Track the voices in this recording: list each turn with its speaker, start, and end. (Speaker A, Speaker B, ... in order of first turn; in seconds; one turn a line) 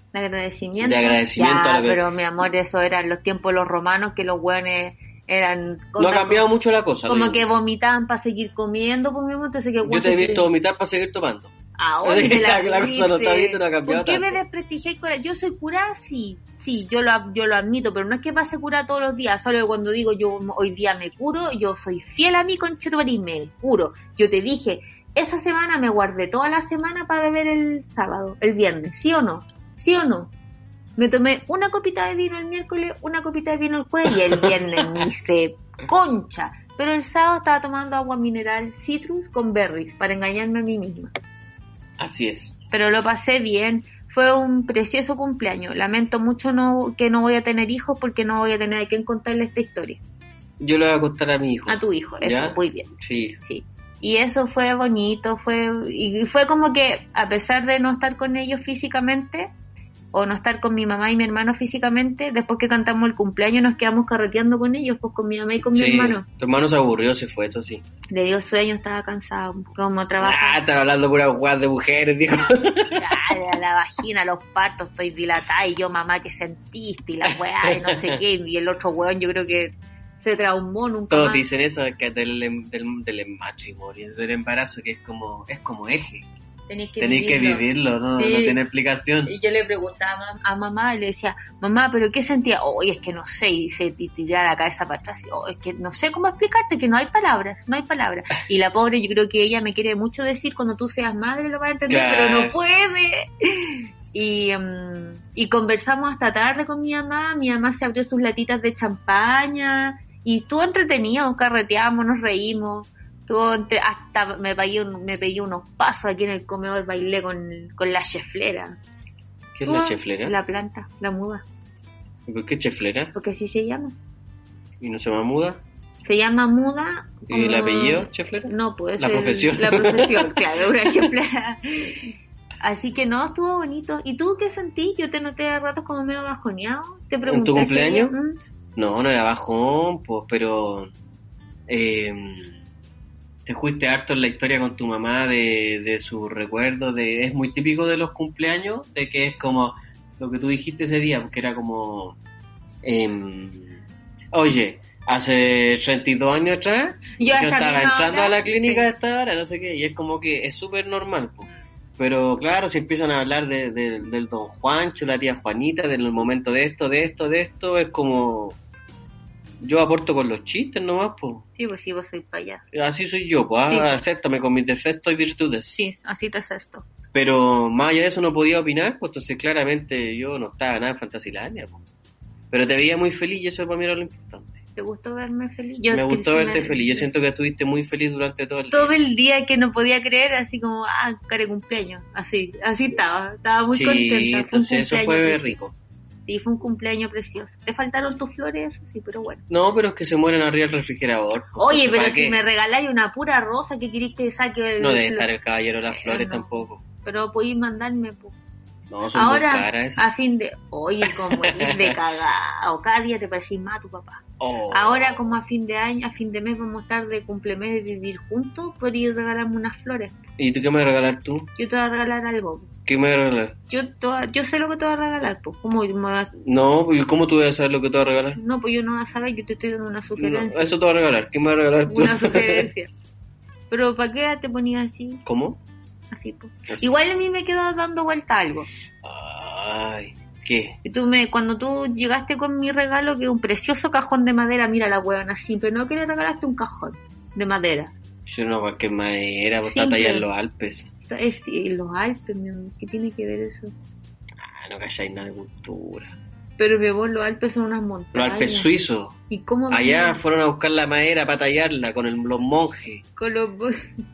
Speaker A: 0.1-6.5
Speaker B: 0.8-2.0
Speaker B: 6.0-7.4
Speaker A: 7.1-10.5
Speaker B: 9.8-11.5
Speaker A: 11.8-30.3
Speaker B: 12.0-14.4
Speaker A: 31.0-41.1
Speaker B: 34.3-35.0
Speaker B: 42.0-42.6
Speaker A: 42.7-50.0
Speaker B: 50.6-53.4
Speaker A: 51.7-52.9
Speaker A: 53.5-59.5
Speaker A: 60.1-66.2
Speaker B: 65.7-67.8
Speaker A: 68.1-70.6
Speaker B: 70.2-73.4
Speaker A: 72.5-81.5
Speaker B: 77.2-78.2
Speaker B: 81.1-86.3
Speaker A: 86.7-88.6
Speaker B: 87.0-89.3
Speaker A: 89.2-118.8
Speaker B: 101.9-102.6
Speaker B: 119.6-120.3
Speaker A: 119.7-121.4
Speaker B: 122.3-123.1
Speaker A: 123.1-124.0
Speaker B: 124.8-125.6
Speaker A: 126.0-138.4
Speaker B: 127.3-131.1
Speaker B: 137.3-138.2
Speaker B: 138.8-140.9
Speaker B: 141.7-142.6
Speaker B: 143.4-152.2
Speaker B: 152.8-153.8
Speaker B: 154.3-161.5
Speaker A: 157.2-158.9
Speaker B: 162.0-168.6
Speaker B: 169.6-171.4
Speaker A: 171.6-172.7
Speaker B: 172.7-175.8
Speaker A: 173.7-174.0
Speaker A: 175.8-176.9
Speaker B: 177.1-181.8
Speaker B: 182.5-184.6
Speaker A: 184.8-187.1
Speaker B: 185.9-189.0
Speaker A: 188.7-195.6
Speaker B: 193.7-195.7
Speaker A: 196.3-199.4
Speaker B: 199.5-202.4
Speaker A: 201.6-205.3
Speaker B: 204.8-206.8
Speaker A: 206.0-208.4
Speaker B: 208.9-210.0
Speaker A: 209.2-220.2
Speaker B: 211.1-211.9
Speaker B: 214.4-215.3
Speaker B: 220.4-221.5
Speaker A: 221.6-222.7
Speaker B: 222.9-223.6
Speaker A: 223.7-226.3
Speaker B: 226.4-228.4
Speaker A: 228.4-230.7
Speaker B: 230.2-232.7
Speaker A: 231.9-232.9
Speaker A: 233.7-235.2
Speaker B: 235.2-235.6
Speaker A: 236.1-238.7
Speaker B: 239.0-240.8
Speaker A: 240.8-247.9
Speaker B: 248.3-250.9
Speaker A: 249.7-250.3
Speaker A: 251.1-253.7
Speaker B: 254.4-256.1
Speaker A: 256.6-258.7
Speaker B: 258.1-259.2
Speaker A: 259.3-260.2
Speaker B: 259.7-263.0
Speaker A: 263.2-263.8